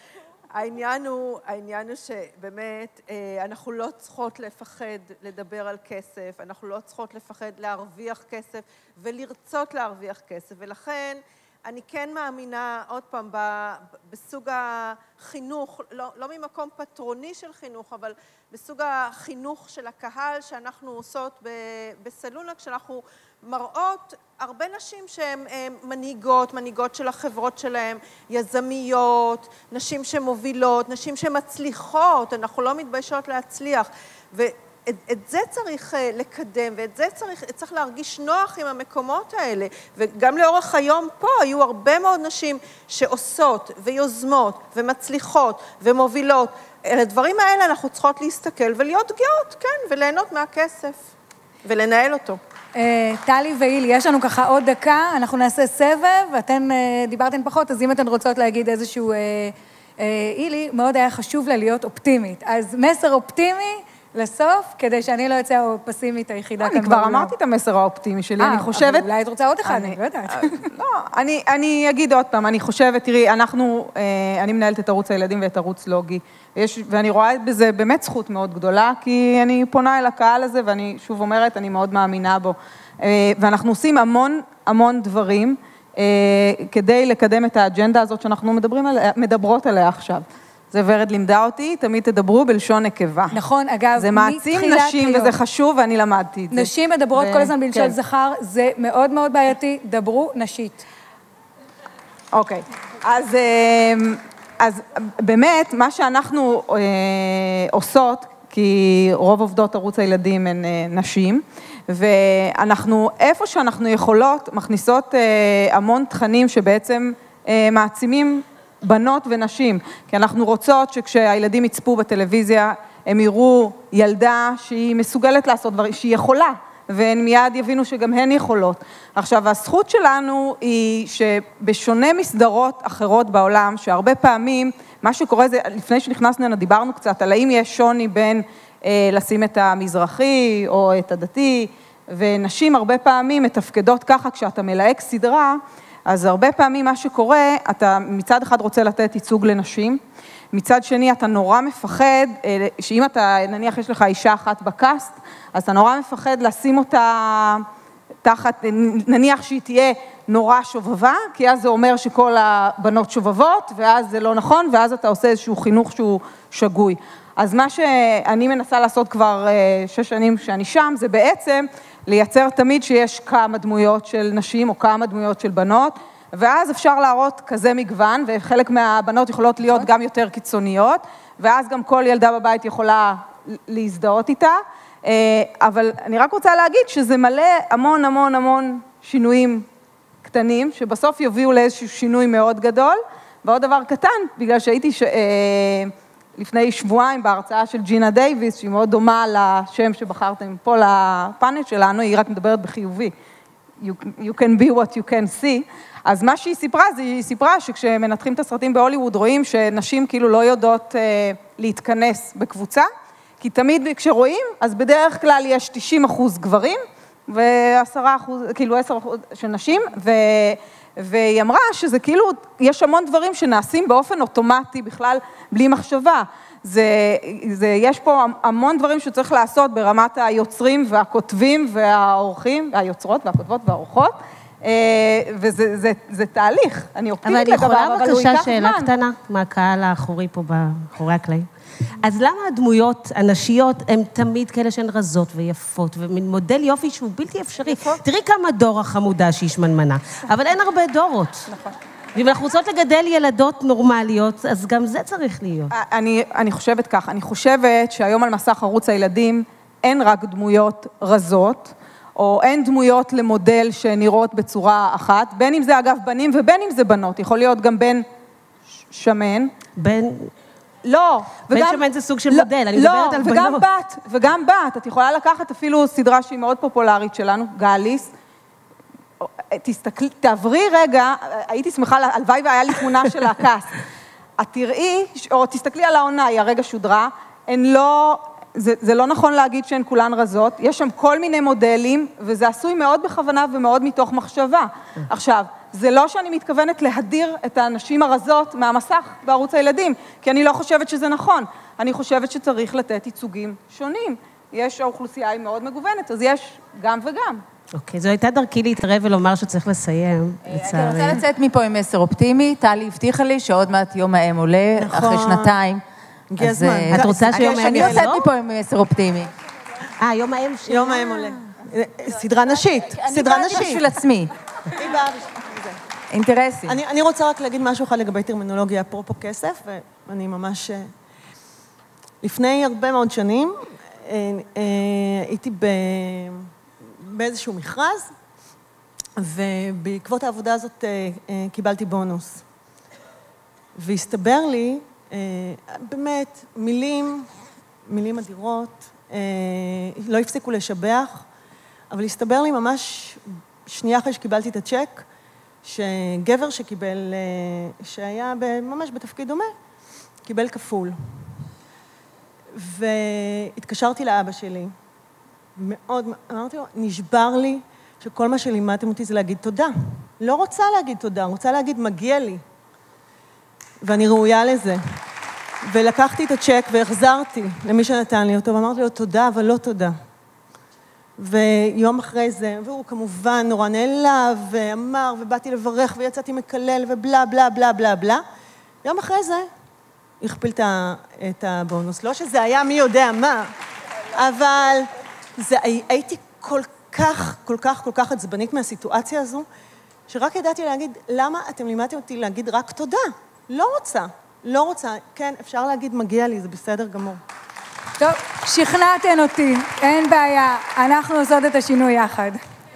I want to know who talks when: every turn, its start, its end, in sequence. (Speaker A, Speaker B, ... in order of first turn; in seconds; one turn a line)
Speaker A: 0.5-51.1
Speaker A: 51.6-52.4
Speaker B: 52.8-67.3
Speaker C: 66.6-69.1
Speaker B: 68.4-70.7
Speaker C: 69.6-93.4
Speaker B: 93.3-95.3
Speaker C: 94.0-98.0
Speaker B: 96.5-100.8
Speaker C: 102.3-157.7
Speaker C: 158.2-189.7
Speaker C: 190.2-203.1
Speaker C: 203.8-212.9
Speaker C: 213.4-238.9
Speaker D: 237.2-241.5
Speaker D: 242.0-251.5
Speaker C: 247.6-248.0
Speaker D: 252.2-255.7
Speaker C: 255.7-268.1
Speaker C: 268.9-269.5
Speaker D: 269.8-270.3
Speaker C: 270.8-278.1
Speaker D: 271.5-273.7
Speaker C: 279.2-283.8
Speaker C: 284.4-307.4
Speaker D: 307.8-311.2
Speaker E: 310.5-315.8
Speaker C: 310.9-311.2
Speaker F: 314.8-315.6
Speaker F: 316.3-318.2
Speaker E: 316.4-319.3
Speaker D: 316.9-318.3
Speaker D: 320.0-321.5
Speaker F: 320.7-323.9
Speaker E: 322.9-324.3
Speaker F: 324.7-325.8
Speaker E: 326.1-326.8
Speaker F: 326.7-330.9
Speaker F: 332.2-338.1
Speaker F: 339.2-342.4
Speaker F: 343.8-347.3
Speaker F: 347.9-351.3
Speaker F: 351.9-355.1
Speaker F: 355.6-359.5
Speaker F: 360.2-361.4
Speaker F: 362.5-364.7
Speaker F: 365.6-372.4
Speaker F: 373.8-374.8
Speaker F: 375.6-379.9
Speaker F: 381.2-388.2
Speaker F: 388.8-389.5
Speaker F: 390.2-393.5
Speaker F: 394.1-399.5
Speaker F: 400.1-407.2
Speaker B: 408.0-412.4